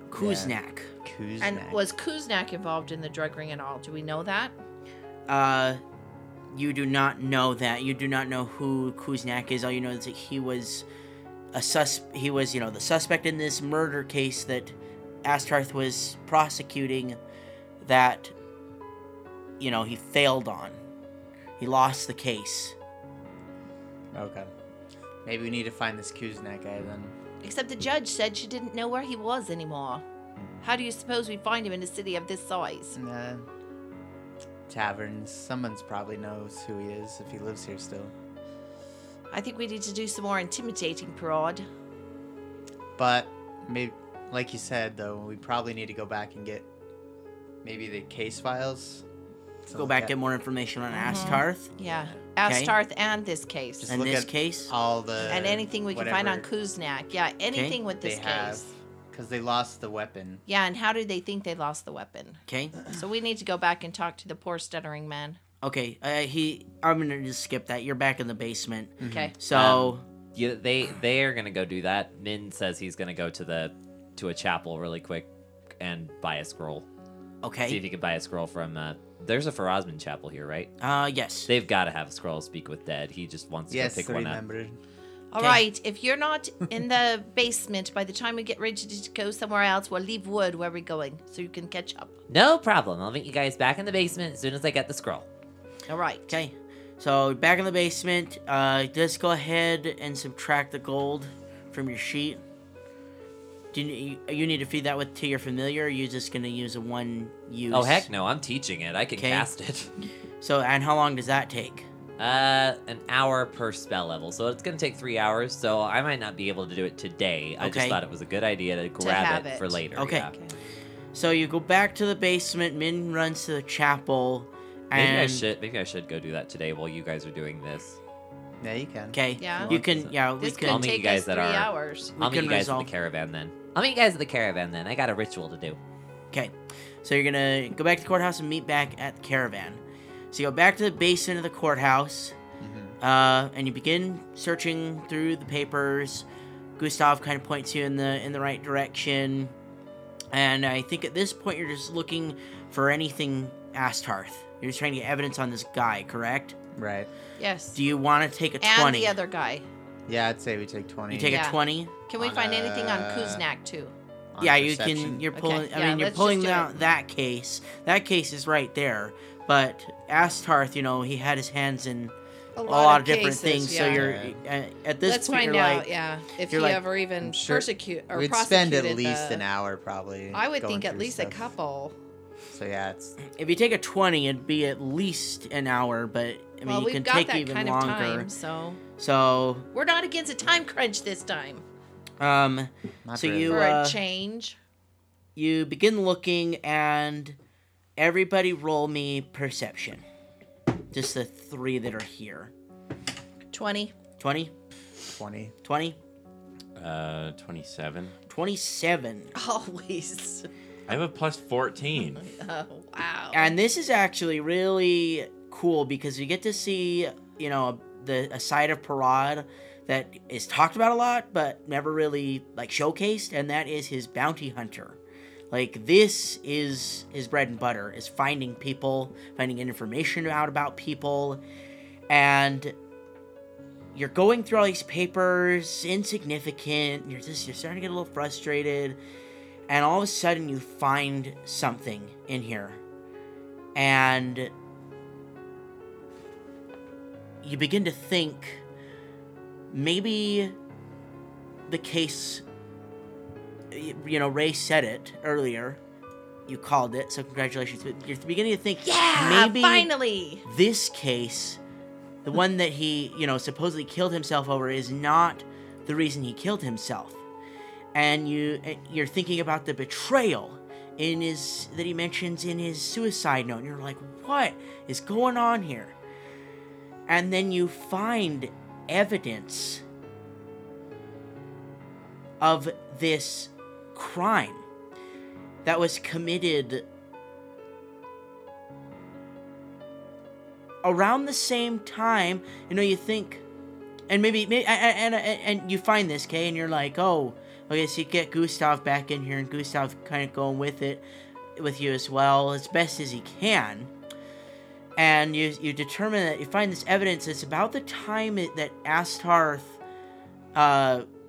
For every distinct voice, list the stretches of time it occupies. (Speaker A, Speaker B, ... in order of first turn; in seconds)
Speaker A: 0.1-0.9, 5.3-5.8, 6.5-10.8, 11.5-17.2, 17.8-18.3, 19.6-20.8, 21.6-22.8, 49.7-51.8, 52.5-52.8, 53.9-54.7, 57.5-57.8, 62.5-62.8, 65.6-70.0, 77.4-77.8, 80.8-81.5, 96.3-102.4, 103.7-108.1, 109.2-109.5, 110.4-111.9, 117.6-118.0, 120.0-120.3, 121.1-125.5, 129.1-130.9, 132.2-132.9, 136.3-139.8, 140.3-142.3, 143.0-146.3, 146.8-149.5, 150.3-156.6, 157.8-159.2, 161.1-161.9, 164.4-172.1, 172.7-175.9, 176.5-176.8, 183.3-188.3, 189.0-189.7, 192.2-194.0, 195.3-197.4, 198.0-200.0, 200.9-202.5, 204.2-204.5, 205.6-206.0, 208.3-209.3, 213.3-225.0, 225.5-231.4, 232.1-232.8, 233.9-239.0, 239.7-242.8, 243.8-244.5, 247.4-248.6, 249.7-250.6, 251.7-252.4, 253.7-255.8, 256.5-259.9, 260.4-261.6, 262.2-267.2, 267.9-275.9, 277.1-279.8, 282.4-284.6, 285.6-286.9, 290.8-293.4, 294.1-301.1, 301.6-303.9, 305.0-309.8, 310.6-311.1
Speaker B: 0.1-1.8, 24.1-24.5, 25.2-27.1, 30.4-30.6, 33.0-33.5, 34.7-38.1, 43.0-46.7, 47.6-49.0, 49.7-50.1, 51.0-52.2, 53.8-56.5, 58.0-60.4, 69.0-69.3, 83.7-84.8, 128.6-129.8, 142.6-143.0, 156.8-157.1, 160.1-161.5, 162.2-163.4, 164.3-165.3, 173.9-174.4, 177.2-181.5, 182.5-183.2, 193.1-193.6, 205.1-205.6
Speaker C: 1.4-4.5, 27.4-30.0, 30.6-33.0, 39.3-41.7, 51.0-53.9, 55.3-58.7, 60.5-65.4, 69.0-69.4, 85.3-92.1, 95.9-96.3, 119.0-120.5, 129.4-129.7, 130.4-132.2, 157.4-157.8, 158.6-159.7, 161.3-163.9, 165.3-166.7, 172.6-174.2, 175.0-179.4, 180.3-182.0, 186.7-188.8, 189.7-191.6, 193.5-194.6, 203.5-203.9, 209.3-210.5, 212.2-213.6, 258.8-260.4
Speaker D: 69.5-75.3, 75.8-76.9, 77.7-80.7, 81.5-84.4, 92.3-95.3, 107.7-109.9, 112.2-120.3, 124.9-128.0, 129.7-135.8
Speaker E: 206.8-208.2, 210.9-212.2